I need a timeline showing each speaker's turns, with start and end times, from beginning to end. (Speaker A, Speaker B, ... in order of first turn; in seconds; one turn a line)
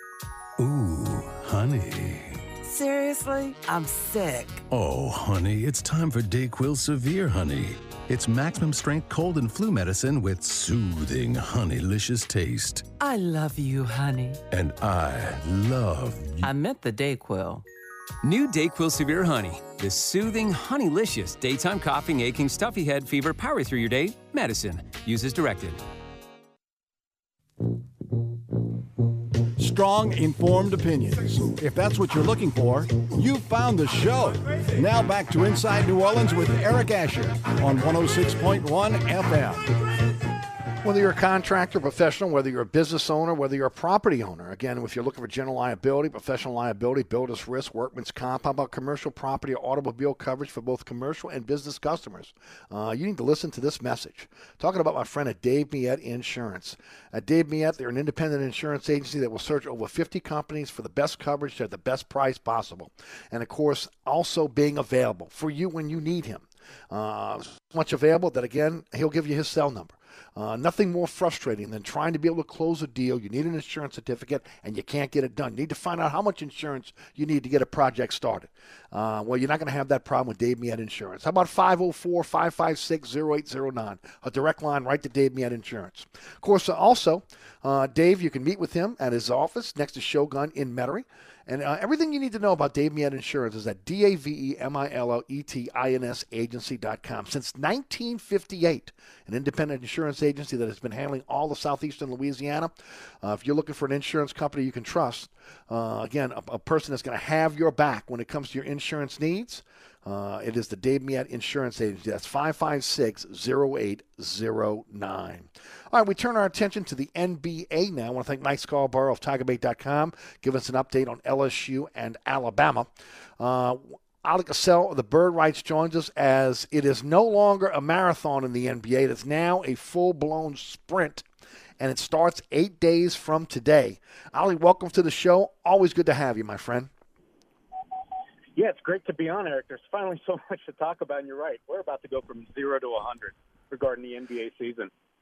Speaker A: 0.6-2.5
Speaker B: 2.6-4.6
Speaker A: 4.7-12.9
Speaker B: 13.0-14.4
Speaker A: 14.5-16.5
Speaker C: 16.4-17.6
Speaker C: 18.2-25.8
Speaker D: 29.6-39.6
Speaker E: 40.8-131.2
Speaker E: 131.8-136.9
Speaker F: 138.6-144.9